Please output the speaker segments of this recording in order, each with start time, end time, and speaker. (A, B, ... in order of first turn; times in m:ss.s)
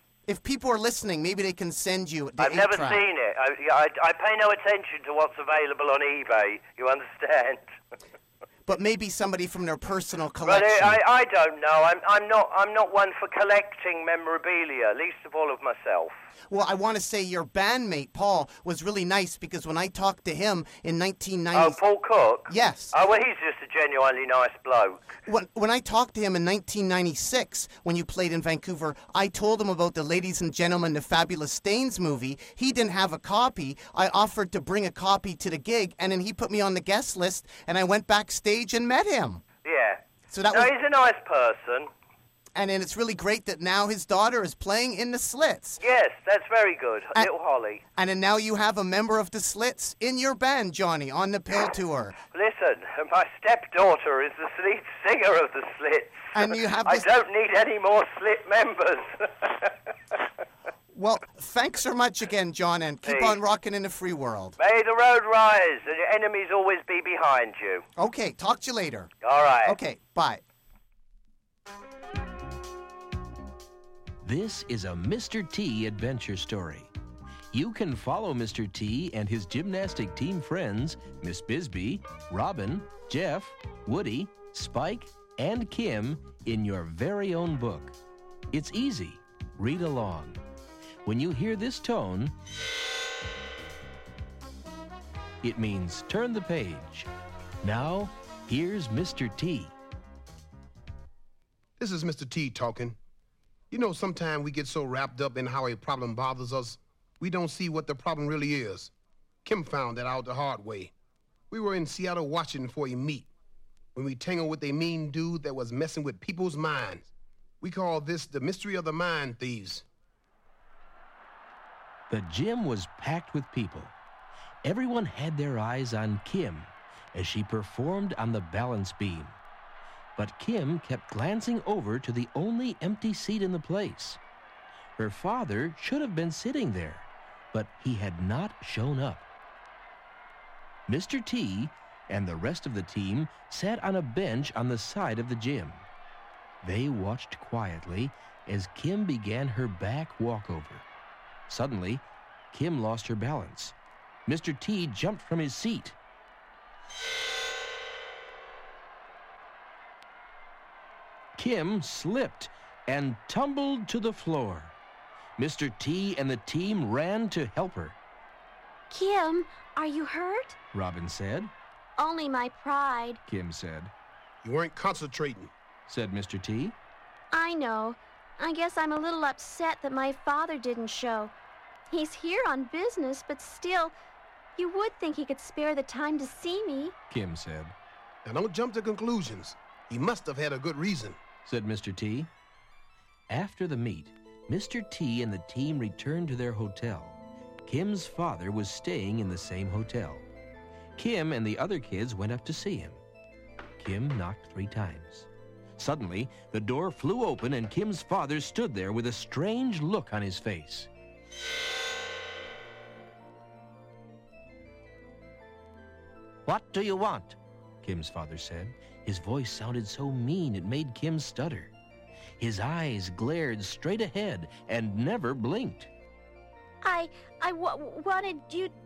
0:00.3-0:03.0 A
0:02.4-0:07.6 B
0:08.6-0:11.0 A
0:10.4-0:16.1 B
0:16.5-0:21.8 A
0:21.5-0:25.1 B
0:22.5-0:22.9 A
0:25.2-0:39.4 A
0:39.6-0:41.9 B
0:40.3-0:40.7 A
0:42.5-0:45.8 A
0:45.8-0:47.8 B
0:48.0-0:52.2 A
0:52.3-0:59.7 B
0:56.3-0:57.1 A
1:00.9-1:04.6 A
1:03.0-1:03.4 B
1:04.6-1:07.8 B
1:08.0-1:09.1 A
1:09.2-1:09.8 B
1:09.6-1:10.4 A
1:14.2-1:16.9 C
1:17.5-1:27.9 C
1:28.5-1:30.4 C
1:31.0-1:32.3 C
1:35.4-1:37.1 C
1:37.6-1:39.7 C
1:41.8-1:43.0 D
1:43.7-1:48.9 D
1:49.4-1:50.9 D
1:51.5-1:53.3 D
1:53.9-1:57.1 D
1:57.6-1:59.8 D
2:02.1-2:04.0 C
2:04.6-2:09.4 C
2:10.2-2:14.2 C
2:15.0-2:19.2 C
2:20.9-2:25.8 C
2:26.6-2:30.8 C
2:31.5-2:33.7 C
2:34.2-2:36.0 C
2:41.4-2:44.7 C
2:45.4-2:48.0 C
2:48.9-2:50.6 E
2:50.7-2:51.5 C
2:52.0-2:53.2 E
2:53.2-2:53.9 C
2:54.4-2:55.5 D
2:55.9-2:56.8 C
2:57.3-3:01.3 E
3:01.9-3:03.9 E
3:04.6-3:07.0 E
3:07.1-3:07.7 C
3:08.2-3:11.2 D
3:11.4-3:12.3 C
3:13.3-3:20.2 C
3:21.0-3:23.0 C
3:23.8-3:30.9 C
3:36.4-3:41.7 C
3:42.4-3:45.9 C
3:46.8-3:48.7 E